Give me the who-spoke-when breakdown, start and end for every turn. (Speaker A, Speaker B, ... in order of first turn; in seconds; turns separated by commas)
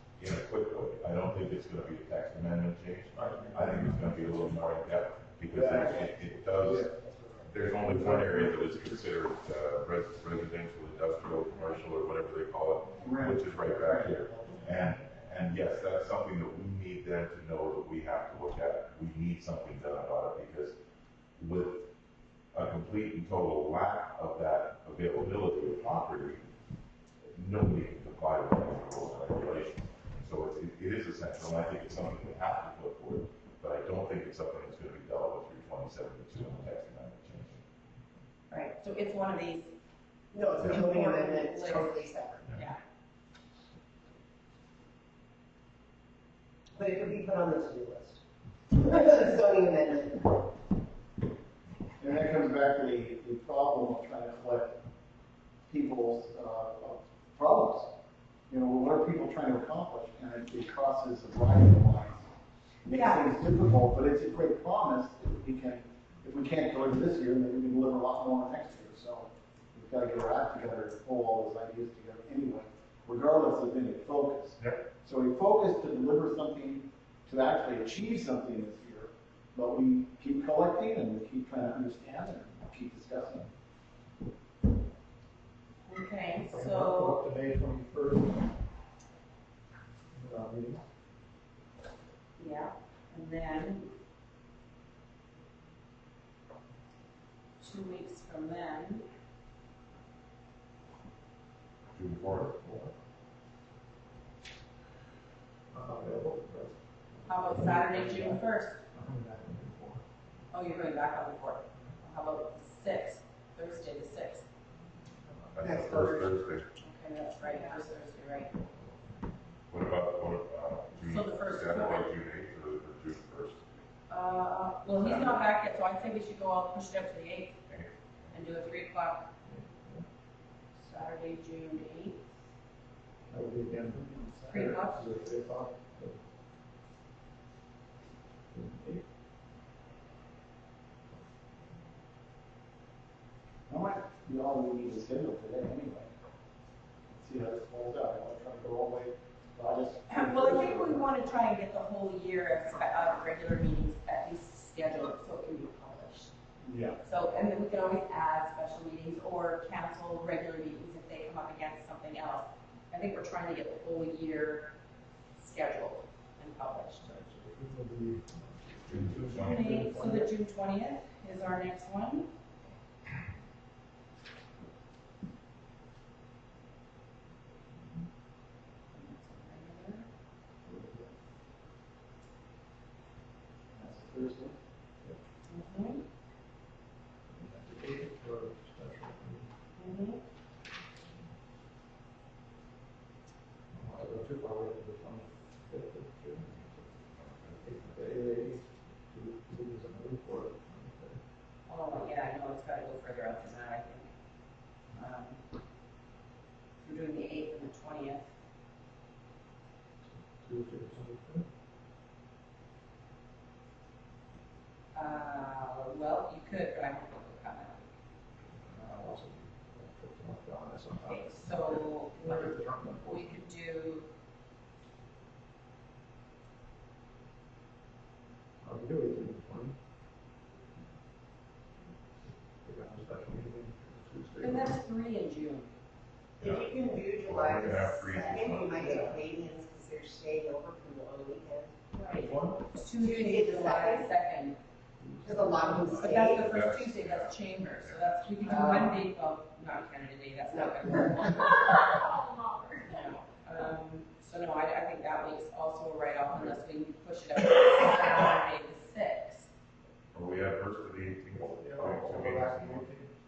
Speaker A: 0.2-6.8, Speaker B: 3.1-4.3, Speaker C: 5.5-7.1, Speaker B: 7.2-8.6, Speaker A: 7.4-20.8, Speaker C: 7.9-8.5, Speaker C: 13.0-15.0, Speaker A: 21.4-21.9, Speaker A: 22.5-26.5, Speaker A: 27.3-37.6, Speaker D: 38.5-39.7, Speaker E: 40.3-42.6, Speaker D: 40.6-42.8, Speaker E: 46.8-50.4, Speaker C: 52.0-54.7, Speaker C: 55.7-57.9, Speaker C: 58.5-62.3, Speaker C: 62.8-83.5, Speaker D: 62.9-63.2, Speaker A: 74.6-74.8, Speaker D: 85.8-87.2, Speaker B: 86.5-88.5, Speaker B: 90.1-90.8, Speaker D: 92.4-93.9, Speaker D: 97.6-99.0, Speaker A: 101.9-102.5, Speaker B: 102.1-102.9, Speaker B: 105.7-110.0, Speaker D: 107.3-108.8, Speaker D: 110.5-114.4, Speaker A: 115.5-116.7, Speaker E: 115.6-116.3, Speaker D: 116.8-118.5, Speaker A: 119.7-123.6, Speaker D: 121.0-122.1, Speaker D: 124.1-127.6, Speaker A: 124.9-125.5, Speaker A: 127.7-128.3, Speaker D: 128.3-129.3, Speaker B: 129.5-130.1, Speaker D: 130.8-132.2, Speaker B: 133.3-136.2, Speaker D: 134.5-135.2, Speaker B: 138.5-139.0, Speaker C: 143.7-146.1, Speaker C: 147.1-151.1, Speaker D: 150.1-156.3, Speaker C: 156.6-157.0, Speaker D: 157.0-164.7, Speaker D: 165.4-167.1, Speaker B: 167.0-170.3, Speaker A: 168.9-169.6, Speaker D: 169.3-172.3, Speaker D: 178.9-180.1, Speaker C: 183.7-184.6, Speaker D: 185.5-186.0, Speaker B: 187.3-189.5, Speaker D: 189.8-190.2, Speaker B: 193.7-196.9, Speaker A: 197.2-197.6, Speaker B: 197.6-201.2, Speaker D: 201.7-204.1, Speaker D: 204.9-205.4, Speaker D: 206.8-208.2, Speaker B: 210.4-211.4, Speaker D: 214.9-217.9, Speaker B: 218.5-223.4, Speaker D: 221.1-224.1, Speaker B: 228.6-229.8, Speaker B: 232.6-234.8, Speaker D: 234.4-235.7, Speaker A: 236.4-239.1, Speaker E: 236.4-241.8, Speaker D: 241.9-244.6, Speaker B: 242.1-242.6, Speaker E: 243.0-244.1, Speaker B: 245.0-246.3, Speaker E: 245.2-246.5, Speaker D: 246.0-252.0, Speaker A: 246.4-248.0, Speaker E: 248.4-249.0, Speaker E: 250.5-251.3, Speaker E: 251.9-252.8, Speaker D: 252.9-259.5, Speaker A: 260.1-262.9, Speaker B: 261.3-263.1